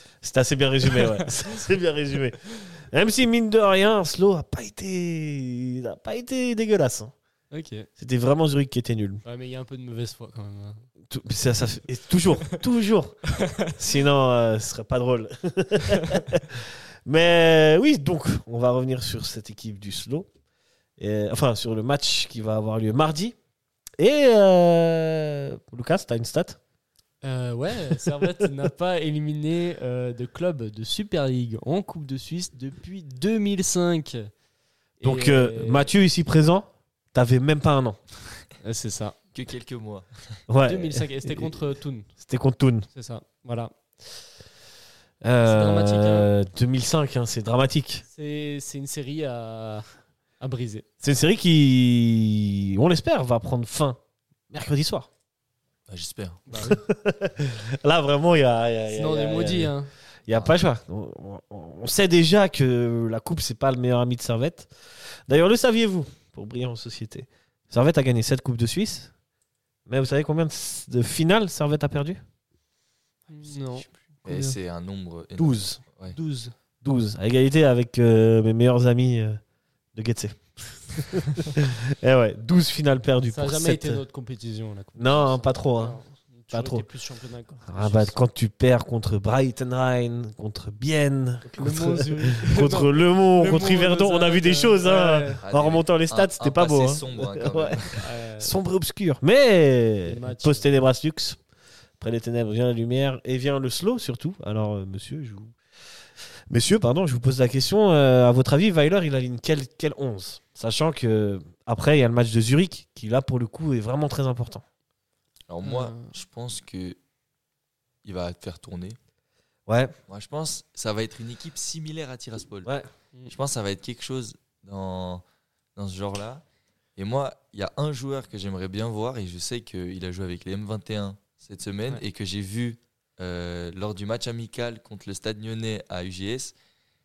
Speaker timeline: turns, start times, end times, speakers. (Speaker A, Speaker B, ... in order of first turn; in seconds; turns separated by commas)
Speaker A: 0.2-7.1, Speaker B: 0.8-1.3, Speaker B: 7.5-7.9, Speaker A: 8.0-9.2, Speaker B: 9.2-10.8, Speaker A: 11.1-20.3, Speaker B: 13.4-13.7, Speaker A: 21.0-23.3, Speaker A: 24.0-26.6, Speaker B: 27.2-34.3, Speaker B: 35.0-35.9, Speaker A: 35.0-38.0, Speaker B: 38.6-39.2, Speaker C: 39.3-40.4, Speaker A: 40.5-42.9, Speaker B: 40.6-42.1, Speaker B: 42.9-43.7, Speaker A: 45.2-48.0, Speaker B: 45.4-46.3, Speaker B: 48.1-49.9, Speaker B: 50.4-50.8, Speaker A: 51.0-54.0, Speaker A: 54.5-55.1, Speaker C: 55.9-56.8, Speaker B: 56.5-56.8, Speaker A: 56.5-59.7, Speaker B: 58.9-59.9, Speaker A: 60.2-64.7, Speaker C: 60.3-60.6, Speaker A: 65.3-69.1, Speaker A: 69.9-72.2, Speaker B: 73.3-74.6, Speaker C: 73.4-76.2, Speaker A: 75.4-75.8, Speaker B: 76.1-76.5, Speaker A: 76.8-79.4, Speaker A: 79.9-84.0, Speaker B: 83.3-88.2, Speaker A: 85.0-86.0, Speaker A: 86.5-86.9, Speaker A: 87.7-101.4, Speaker B: 91.4-95.4, Speaker C: 95.4-98.0, Speaker B: 98.0-98.5, Speaker B: 100.0-100.7, Speaker A: 102.0-105.5, Speaker A: 106.5-114.6, Speaker C: 115.5-117.0, Speaker B: 115.6-116.1, Speaker C: 118.0-119.0, Speaker A: 119.7-119.9, Speaker C: 120.1-122.7, Speaker C: 123.2-125.2, Speaker C: 125.8-126.4, Speaker C: 127.0-136.5